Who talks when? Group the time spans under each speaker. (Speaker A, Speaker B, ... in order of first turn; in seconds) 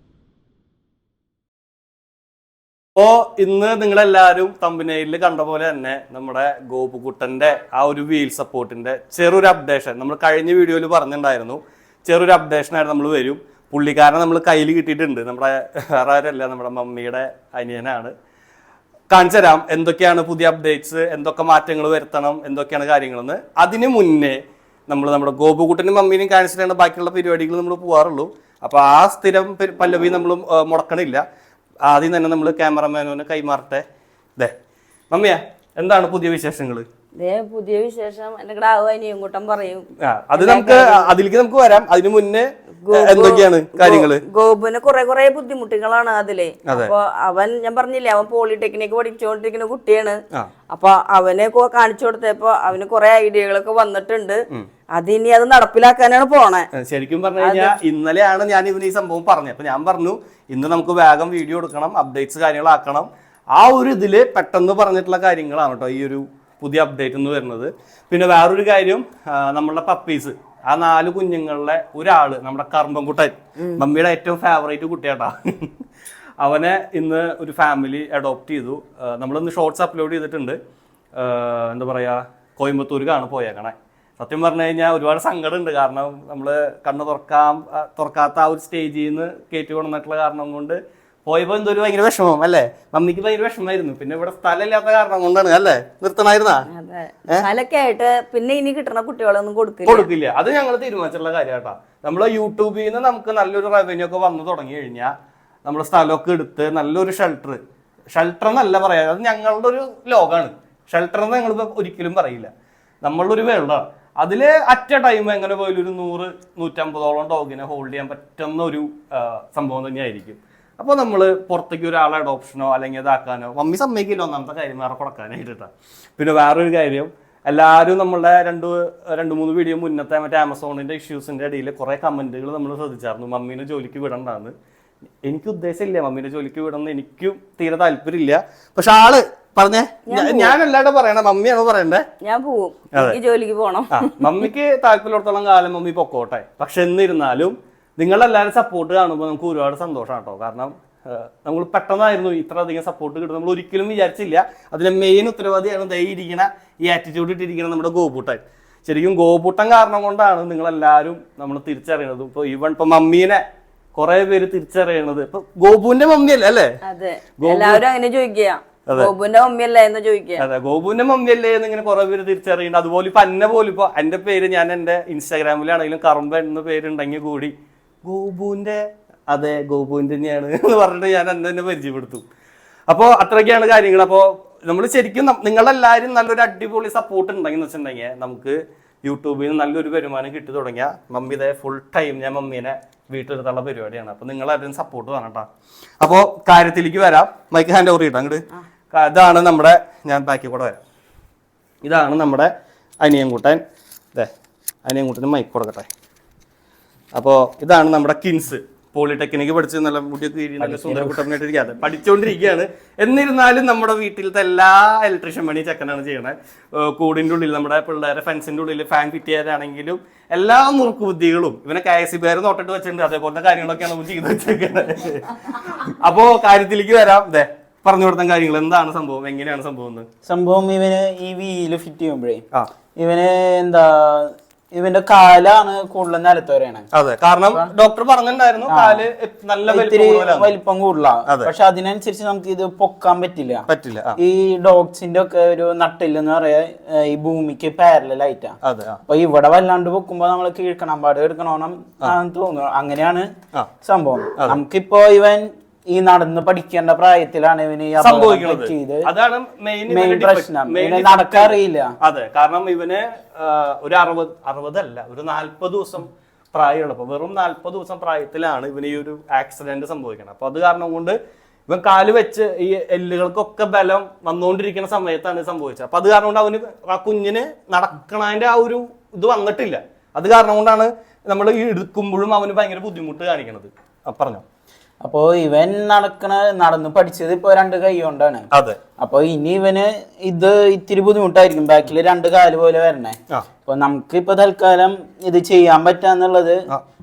Speaker A: 3.0-18.1, 19.1-31.2, 31.8-33.8, 35.1-36.9, 40.0-44.2, 46.7-46.9, 56.7-75.8, 76.4-80.6, 81.1-96.7, 99.8-105.1, 105.6-112.5, 113.0-134.5, 135.2-142.1, 142.9-143.2, 143.9-163.4, 163.9-166.7, 167.4-167.8, 170.4-182.2, 182.9-195.5, 196.0-200.8, 201.8-203.6, 204.8-205.9, 207.1-230.1, 236.9-240.5, 241.2-241.5, 243.7-244.2, 248.6-249.0, 258.0-271.1, 271.7-284.4, 288.5-288.8
Speaker B: 37.2-39.8, 40.4-41.1, 42.8-50.2, 50.7-54.4, 55.0-56.7, 57.4-57.8, 96.7-100.1, 140.1-140.5, 142.2-144.3, 166.8-170.4
Speaker C: 210.6-211.2, 230.2-232.4, 233.0-236.9, 238.7-239.1, 239.7-243.7, 244.2-253.3, 253.8-259.1, 259.9-261.9, 285.0-288.5, 289.0-296.6